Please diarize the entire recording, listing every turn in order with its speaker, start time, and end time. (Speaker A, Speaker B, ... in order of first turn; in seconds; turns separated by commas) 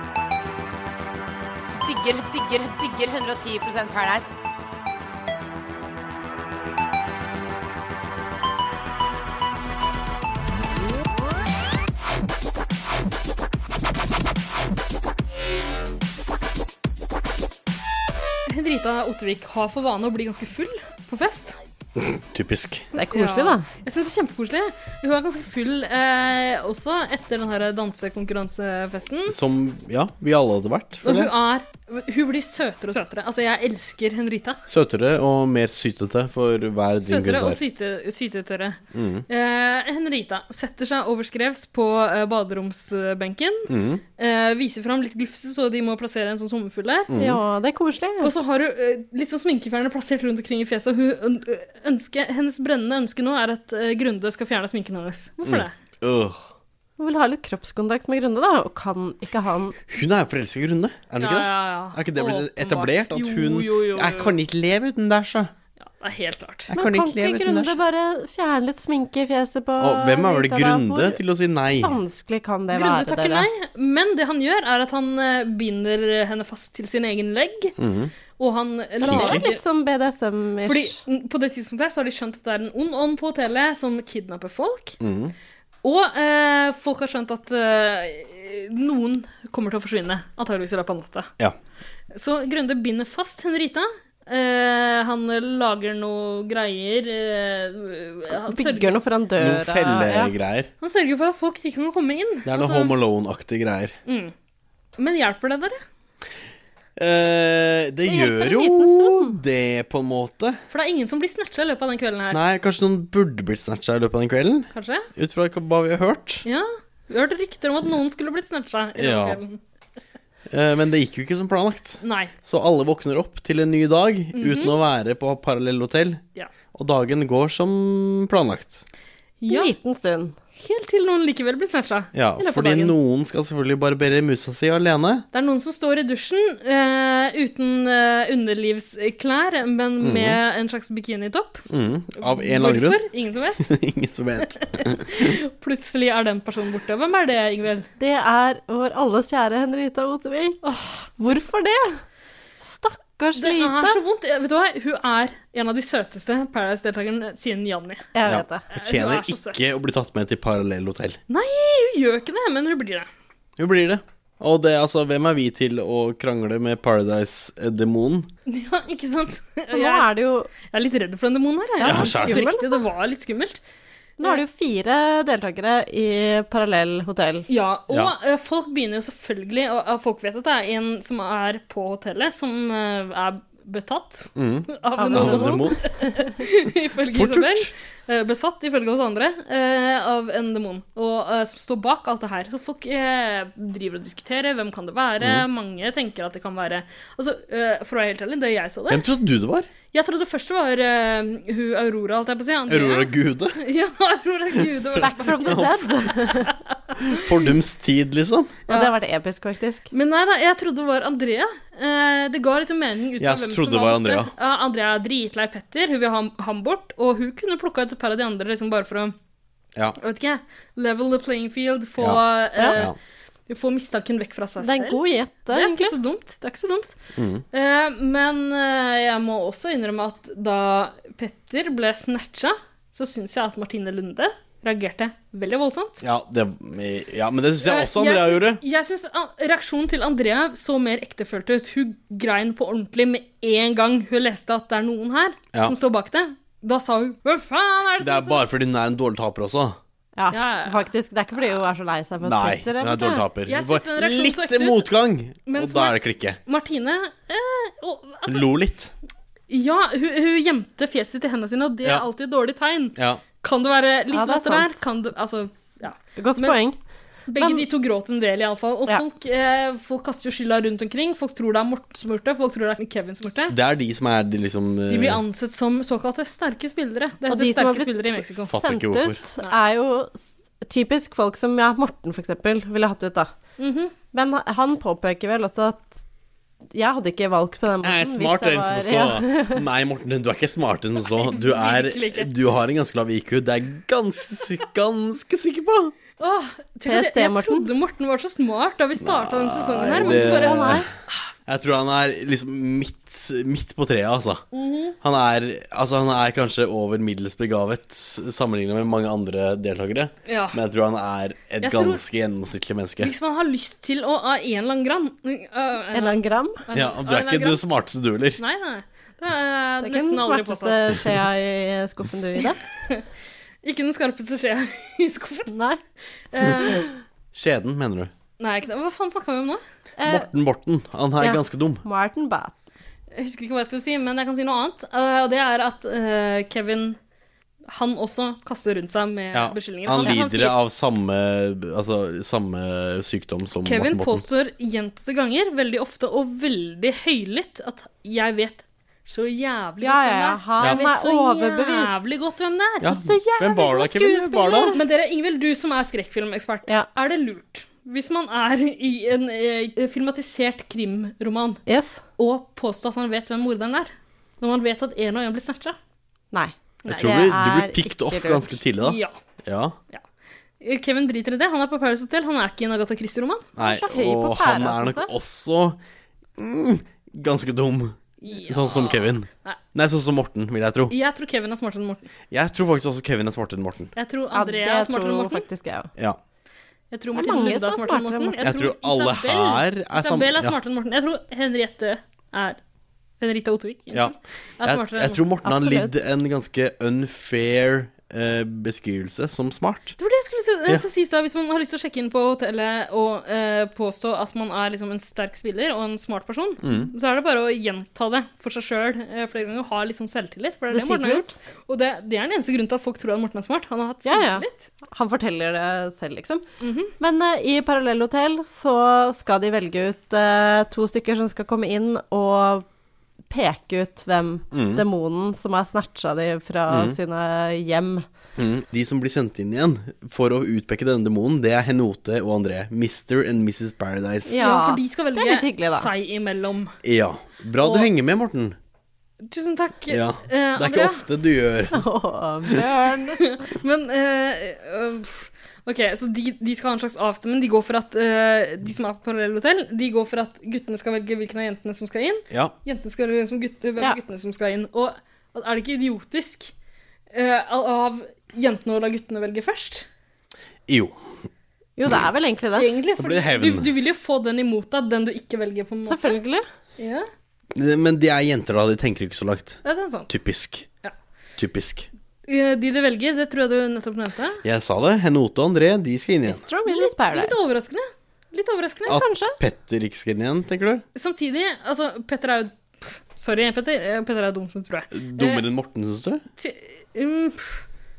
Speaker A: 1.8-4.3, Speaker B: 18.5-21.6, Speaker C: 22.0-22.9, Speaker D: 22.9-23.7, Speaker B: 23.1-29.3, Speaker C: 29.3-31.3, Speaker B: 31.0-34.6, Speaker C: 34.7-37.6, Speaker B: 37.0-47.1, Speaker C: 38.9-39.2, Speaker C: 43.7-44.0, Speaker C: 47.1-47.4, Speaker D: 47.1-48.3, Speaker B: 48.2-55.7, Speaker C: 55.4-56.4, Speaker D: 57.0-59.8, Speaker C: 59.9-65.5, Speaker B: 61.2-64.3, Speaker B: 65.8-66.7, Speaker C: 66.7-67.8, Speaker D: 66.7-71.2, Speaker C: 69.8-72.0, Speaker D: 71.8-73.5, Speaker B: 72.7-77.7, Speaker C: 77.8-78.1, Speaker B: 78.4-79.6, Speaker D: 79.0-81.0, Speaker C: 79.0-79.4, Speaker B: 80.6-85.0, Speaker C: 85.0-85.3, Speaker B: 85.8-91.3, Speaker B: 92.1-99.0, Speaker D: 98.3-100.3, Speaker C: 99.4-100.7, Speaker B: 100.8-102.9, Speaker C: 102.5-103.9, Speaker B: 104.0-104.3, Speaker B: 105.0-105.8, Speaker C: 107.0-110.6, Speaker D: 108.0-109.4, Speaker B: 110.7-112.4, Speaker C: 112.3-116.4, Speaker B: 114.7-115.1, Speaker B: 116.4-119.6, Speaker C: 119.0-119.4, Speaker C: 120.5-126.2, Speaker B: 122.0-122.3, Speaker B: 124.3-124.7, Speaker C: 126.7-128.8, Speaker B: 129.4-129.7, Speaker D: 129.5-130.3, Speaker B: 130.6-132.9, Speaker C: 132.1-135.2, Speaker B: 135.3-141.6, Speaker C: 140.0-140.4, Speaker C: 141.7-143.0, Speaker B: 142.2-143.7, Speaker C: 143.6-145.3, Speaker B: 144.8-147.9, Speaker D: 148.0-152.0, Speaker D: 152.6-154.0, Speaker B: 153.3-158.1, Speaker D: 158.1-158.6, Speaker C: 158.2-161.2, Speaker B: 158.7-159.6, Speaker B: 161.3-163.1, Speaker C: 163.6-168.3, Speaker B: 168.5-170.1, Speaker D: 169.7-170.5, Speaker B: 170.7-173.6, Speaker D: 171.8-172.8, Speaker C: 171.8-172.4, Speaker D: 174.2-177.5, Speaker B: 177.5-199.0, Speaker C: 184.3-185.8, Speaker D: 185.0-186.4, Speaker C: 187.1-187.7, Speaker C: 195.2-195.4, Speaker C: 198.9-199.7, Speaker B: 199.9-207.2, Speaker C: 202.7-203.6, Speaker D: 204.9-206.5, Speaker C: 205.4-205.8, Speaker C: 207.1-208.6, Speaker B: 208.7-208.9, Speaker D: 208.7-209.9, Speaker B: 209.9-219.1, Speaker C: 213.2-214.3, Speaker B: 220.0-222.9, Speaker B: 223.5-226.9, Speaker D: 224.6-225.9, Speaker C: 227.2-227.4, Speaker B: 227.5-236.0, Speaker C: 236.0-238.6, Speaker B: 237.6-248.4, Speaker C: 248.0-249.8, Speaker D: 250.2-253.2, Speaker B: 250.3-250.8, Speaker C: 252.2-256.4, Speaker B: 253.5-254.8, Speaker B: 255.5-258.5, Speaker C: 258.3-258.9, Speaker B: 259.5-266.6, Speaker C: 263.0-263.2, Speaker D: 264.1-264.8, Speaker D: 266.1-266.8, Speaker B: 267.3-273.5, Speaker D: 267.3-267.6, Speaker C: 273.5-275.2, Speaker B: 274.9-278.5, Speaker D: 277.3-283.3, Speaker C: 278.5-279.2, Speaker B: 283.6-283.9, Speaker D: 284.1-286.0, Speaker D: 286.7-289.6, Speaker C: 287.8-295.9, Speaker B: 291.1-292.3, Speaker B: 296.2-300.8, Speaker D: 296.8-297.7, Speaker C: 299.0-300.9, Speaker D: 299.8-300.9, Speaker C: 301.5-304.4, Speaker B: 304.5-304.9, Speaker C: 305.0-313.1, Speaker B: 310.2-310.6, Speaker B: 311.6-312.0, Speaker B: 313.0-317.6, Speaker D: 315.9-316.6, Speaker C: 316.7-318.4, Speaker B: 318.4-320.9, Speaker D: 319.8-322.6, Speaker B: 323.6-325.5, Speaker D: 325.5-325.8, Speaker B: 326.3-326.9, Speaker D: 326.6-326.9, Speaker C: 327.3-328.1, Speaker B: 328.4-329.6, Speaker D: 330.0-330.3, Speaker C: 330.0-331.8, Speaker D: 331.2-332.5, Speaker B: 333.1-337.0, Speaker B: 337.7-340.6, Speaker C: 339.3-344.2, Speaker B: 343.6-352.9, Speaker D: 349.8-352.0, Speaker C: 352.8-354.8, Speaker D: 352.9-354.8, Speaker B: 354.7-361.6, Speaker D: 361.6-362.0, Speaker B: 362.2-365.8, Speaker D: 366.3-368.6, Speaker B: 366.8-367.3, Speaker C: 366.9-369.8, Speaker B: 368.8-369.1, Speaker B: 370.6-373.5, Speaker D: 373.6-375.1, Speaker C: 373.6-375.8, Speaker C: 376.4-380.9, Speaker B: 378.2-379.6, Speaker B: 380.9-382.1, Speaker C: 382.3-383.9, Speaker B: 383.9-385.5, Speaker D: 384.3-385.9, Speaker B: 386.9-392.6, Speaker D: 387.1-388.4, Speaker C: 388.4-390.5, Speaker B: 393.2-395.2, Speaker C: 393.9-400.0, Speaker D: 395.4-395.9, Speaker B: 400.0-414.7, Speaker C: 406.6-406.9, Speaker D: 410.7-411.4, Speaker D: 414.0-416.4, Speaker B: 416.6-416.9, Speaker D: 417.0-422.6, Speaker D: 423.3-428.1, Speaker C: 424.5-424.8, Speaker C: 426.7-427.0, Speaker C: 428.4-434.4, Speaker D: 434.2-435.9, Speaker B: 434.4-436.7, Speaker C: 436.8-438.6, Speaker B: 437.6-437.9, Speaker B: 439.2-441.0, Speaker C: 439.9-441.8, Speaker D: 441.7-443.2, Speaker B: 443.2-456.5, Speaker B: 457.1-459.9, Speaker C: 460.7-461.0, Speaker D: 461.8-462.7, Speaker B: 462.6-466.2, Speaker C: 463.0-463.7, Speaker D: 465.9-466.4, Speaker B: 466.8-467.1, Speaker C: 467.5-470.6, Speaker B: 469.6-470.1, Speaker C: 471.4-471.9, Speaker B: 472.3-474.4, Speaker C: 474.4-476.4, Speaker D: 476.2-477.4, Speaker B: 476.6-479.0, Speaker D: 478.9-479.4, Speaker C: 478.9-480.8, Speaker B: 480.9-485.4, Speaker C: 484.9-486.2, Speaker B: 486.4-487.6